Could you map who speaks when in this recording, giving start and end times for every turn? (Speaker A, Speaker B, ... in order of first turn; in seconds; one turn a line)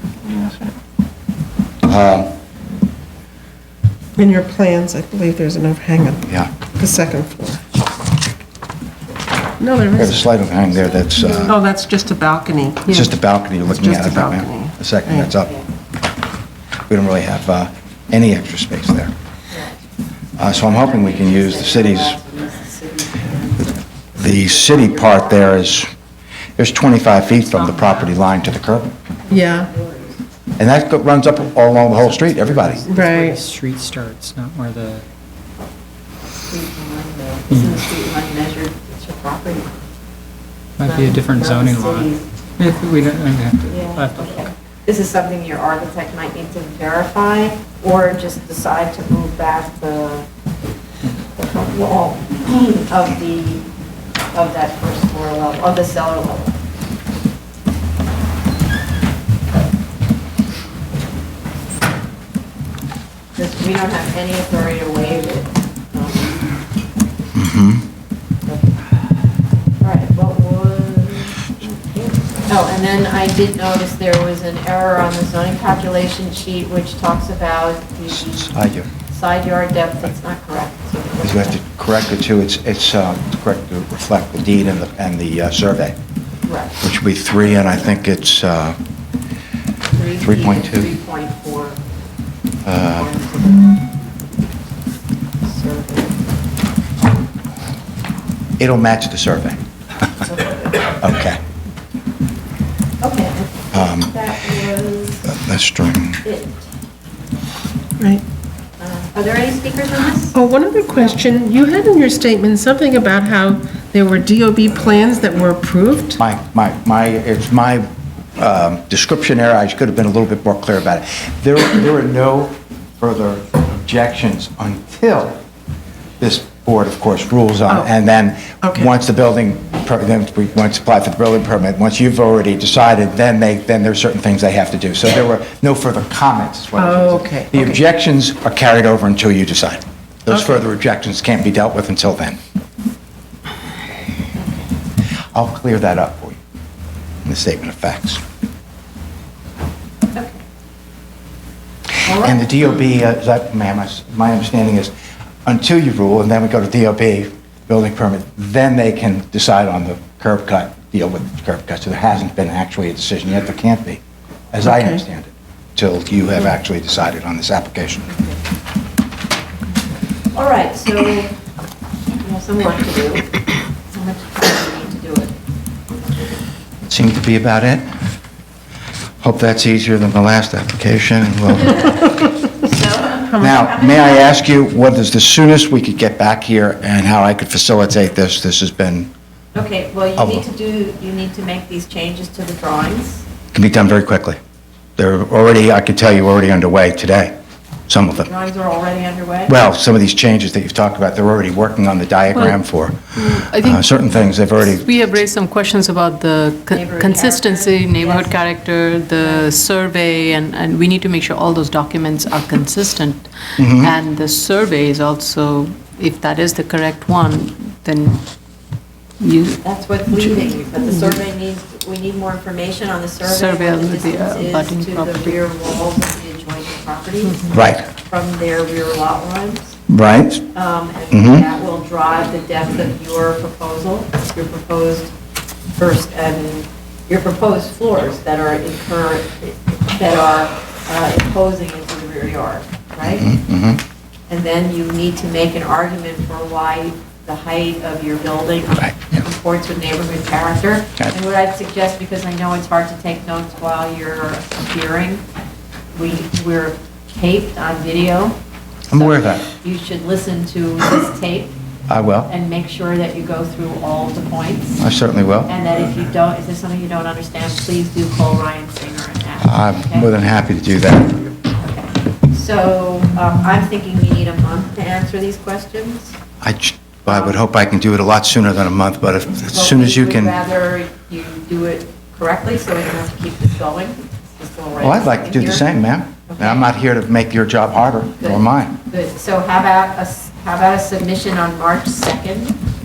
Speaker A: 0.2-0.7
Speaker B: 1.8-2.3
Speaker A: 4.2-7.6
Speaker B: 6.2-6.5
Speaker A: 9.6-10.3
Speaker B: 9.9-11.5
Speaker A: 11.0-12.9
Speaker C: 12.9-13.1
Speaker B: 12.9-15.5
Speaker A: 13.7-15.3
Speaker B: 16.9-19.1
Speaker B: 20.4-22.2
Speaker D: 20.4-25.7
Speaker B: 24.1-25.9
Speaker B: 26.6-28.9
Speaker D: 29.3-30.2
Speaker A: 29.3-29.7
Speaker B: 30.6-32.9
Speaker E: 31.8-35.0
Speaker A: 32.9-33.4
Speaker D: 36.4-39.7
Speaker E: 37.5-37.8
Speaker E: 40.8-44.5
Speaker D: 40.8-42.2
Speaker D: 43.7-50.2
Speaker D: 51.2-53.6
Speaker D: 54.3-56.6
Speaker D: 63.4-66.4
Speaker B: 67.3-67.8
Speaker D: 69.8-78.5
Speaker B: 78.1-78.9
Speaker D: 79.1-81.6
Speaker B: 81.2-86.0
Speaker D: 86.5-86.8
Speaker B: 86.8-88.8
Speaker D: 89.9-91.8
Speaker B: 90.2-90.9
Speaker B: 92.7-93.1
Speaker D: 92.7-93.8
Speaker D: 95.4-96.2
Speaker B: 98.6-99.6
Speaker D: 100.2-100.8
Speaker B: 100.9-101.4
Speaker D: 103.0-105.3
Speaker B: 103.7-104.1
Speaker B: 105.2-106.2
Speaker D: 106.2-106.6
Speaker D: 108.8-110.3
Speaker A: 110.3-116.2
Speaker B: 116.2-125.4
Speaker B: 126.2-142.4
Speaker A: 128.6-128.9
Speaker A: 136.8-137.8
Speaker D: 144.4-144.7
Speaker B: 145.3-146.4
Speaker B: 147.2-148.2
Speaker D: 150.1-150.4
Speaker D: 152.0-152.4
Speaker B: 152.1-154.9
Speaker B: 155.4-164.0
Speaker B: 164.5-168.1
Speaker A: 164.7-165.0
Speaker D: 168.1-168.4
Speaker D: 170.3-171.3
Speaker D: 172.2-173.3
Speaker D: 173.9-175.3
Speaker B: 176.8-177.8
Speaker B: 179.2-182.1
Speaker D: 182.6-184.3
Speaker B: 183.4-189.1
Speaker D: 189.5-193.2
Speaker B: 190.2-190.5
Speaker B: 193.5-194.4
Speaker B: 195.0-197.3
Speaker B: 197.9-198.3
Speaker D: 198.1-199.5
Speaker B: 199.5-204.9
Speaker C: 203.2-218.2
Speaker D: 206.7-208.3
Speaker D: 209.2-209.5
Speaker B: 213.6-213.9
Speaker C: 219.2-219.6
Speaker D: 219.6-229.8
Speaker C: 223.2-225.4
Speaker B: 227.5-227.8
Speaker B: 229.9-230.4
Speaker D: 230.5-235.1
Speaker B: 231.1-231.4
Speaker D: 235.8-243.3
Speaker B: 243.0-243.8
Speaker D: 244.3-255.2
Speaker B: 248.8-249.2
Speaker D: 255.9-258.4
Speaker B: 258.9-259.4
Speaker D: 258.9-261.5
Speaker B: 261.9-262.3
Speaker D: 262.3-264.8
Speaker B: 264.8-265.5
Speaker D: 265.5-270.1
Speaker B: 269.4-271.3
Speaker D: 271.6-276.2
Speaker B: 276.4-280.4
Speaker D: 277.1-277.4
Speaker D: 279.5-285.6
Speaker B: 284.8-288.7
Speaker D: 286.3-286.7
Speaker D: 288.2-292.6